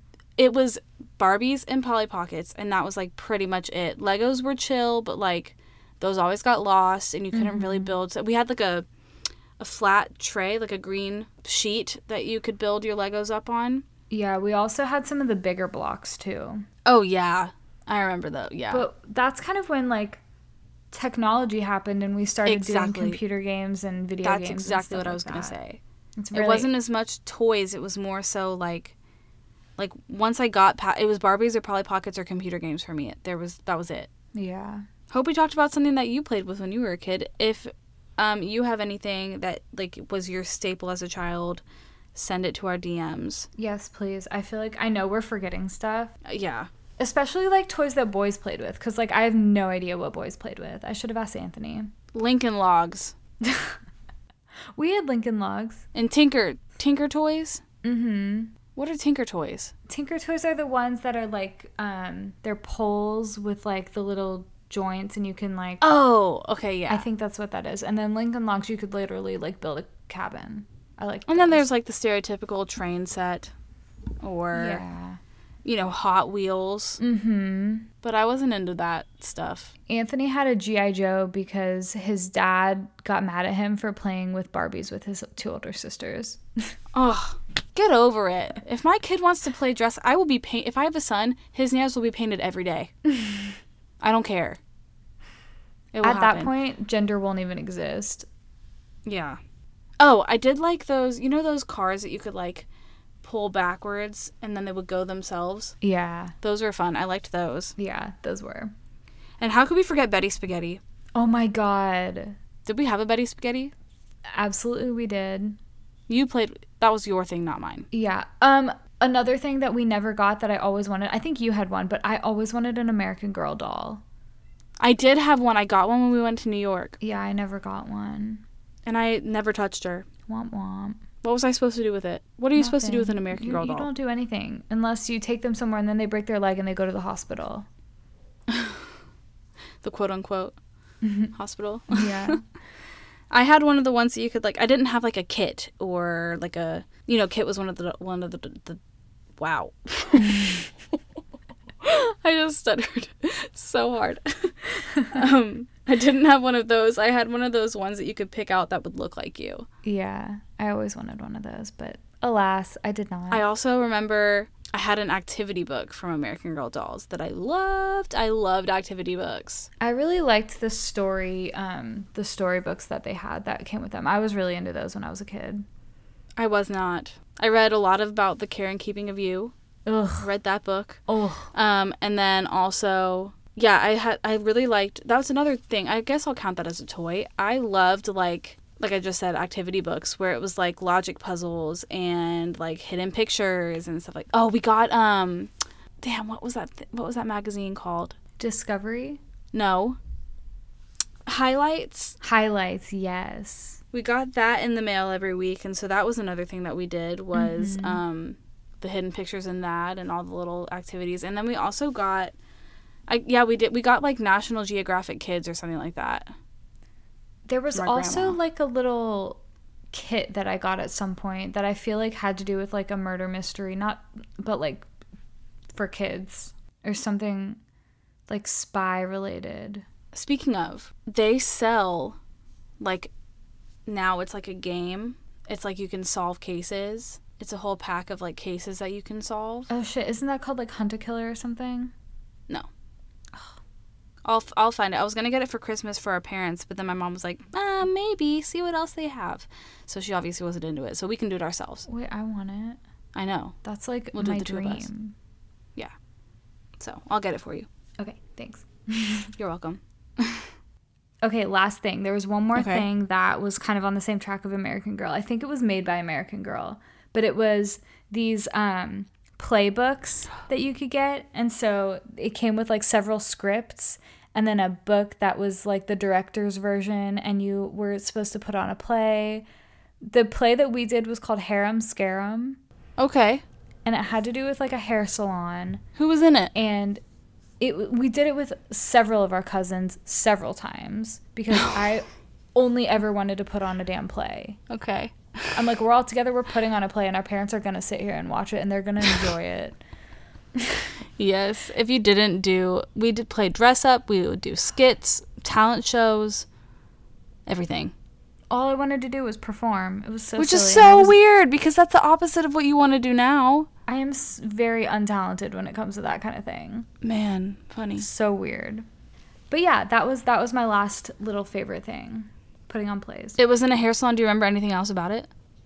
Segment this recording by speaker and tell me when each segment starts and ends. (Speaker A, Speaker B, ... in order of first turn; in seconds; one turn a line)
Speaker A: 0.4-8.9
Speaker B: 7.3-8.0
Speaker A: 9.6-13.8
Speaker B: 14.1-16.7
Speaker A: 16.9-18.9
Speaker B: 18.7-20.2
Speaker B: 20.9-25.6
Speaker A: 22.5-23.2
Speaker A: 24.2-25.8
Speaker B: 26.2-26.7
Speaker A: 26.3-28.9
Speaker A: 29.8-34.1
Speaker B: 34.3-34.9
Speaker A: 35.1-41.6
Speaker A: 42.1-43.5
Speaker B: 43.6-46.1
Speaker A: 46.2-46.7
Speaker B: 47.0-51.9
Speaker A: 52.1-53.1
Speaker B: 53.4-53.8
Speaker B: 54.8-55.9
Speaker A: 55.9-57.6
Speaker B: 57.8-58.5
Speaker A: 58.8-59.7
Speaker B: 59.9-65.8
Speaker A: 65.8-67.1
Speaker B: 66.9-71.7
Speaker A: 71.3-73.5
Speaker A: 74.2-74.8
Speaker B: 74.5-75.2
Speaker A: 75.7-77.0
Speaker B: 77.0-77.9
Speaker A: 78.0-79.7
Speaker B: 79.9-86.7
Speaker A: 86.9-92.9
Speaker A: 94.0-94.6
Speaker A: 95.9-96.5
Speaker B: 96.0-98.3
Speaker A: 99.1-99.4
Speaker A: 100.0-102.7
Speaker A: 103.2-105.8
Speaker B: 105.8-106.4
Speaker A: 106.4-107.8
Speaker B: 107.8-108.7
Speaker A: 109.4-110.8
Speaker B: 111.2-112.4
Speaker A: 112.7-113.7
Speaker B: 114.3-115.6
Speaker A: 116.1-117.9
Speaker B: 117.9-124.0
Speaker A: 124.8-127.0
Speaker B: 127.0-128.4
Speaker A: 128.9-130.1
Speaker B: 130.3-131.0
Speaker A: 131.2-133.9
Speaker B: 132.6-137.7
Speaker A: 138.5-138.8
Speaker A: 139.8-140.6
Speaker B: 141.0-141.3
Speaker A: 141.3-142.4
Speaker B: 141.9-142.4
Speaker A: 143.3-148.8
Speaker A: 149.4-150.7
Speaker A: 151.8-159.7
Speaker B: 159.8-163.4
Speaker A: 163.3-169.7
Speaker B: 169.8-175.6
Speaker A: 176.4-179.5
Speaker B: 179.9-180.3
Speaker A: 180.2-181.0
Speaker B: 181.1-181.5
Speaker A: 181.5-198.2
Speaker B: 198.4-199.2
Speaker A: 199.5-200.0
Speaker A: 201.3-202.2
Speaker B: 202.2-203.8
Speaker A: 203.9-212.3
Speaker B: 207.3-208.0
Speaker A: 213.1-216.3
Speaker B: 217.5-219.4
Speaker A: 217.7-218.4
Speaker B: 219.9-224.9
Speaker B: 225.7-227.6
Speaker B: 228.3-229.8
Speaker A: 230.1-232.2
Speaker A: 232.8-233.1
Speaker A: 233.9-239.7
Speaker B: 239.7-241.9
Speaker A: 244.2-251.9
Speaker B: 251.9-252.8
Speaker A: 253.2-253.6
Speaker B: 253.6-255.1
Speaker A: 254.1-254.9
Speaker A: 256.8-257.7
Speaker B: 258.0-259.3
Speaker A: 259.4-260.5
Speaker B: 261.2-279.4
Speaker A: 262.6-262.9
Speaker B: 280.0-282.6
Speaker A: 283.0-283.4
Speaker B: 283.9-285.8
Speaker A: 286.0-286.5
Speaker B: 286.5-287.0
Speaker B: 287.6-294.6
Speaker A: 294.7-295.6
Speaker B: 295.6-299.8
Speaker B: 300.6-300.8
Speaker A: 301.2-306.5
Speaker A: 307.5-307.9
Speaker B: 308.5-311.2
Speaker A: 310.4-313.7
Speaker B: 313.9-316.9
Speaker A: 317.0-318.1
Speaker B: 318.0-318.9
Speaker B: 319.5-323.4
Speaker A: 323.4-325.3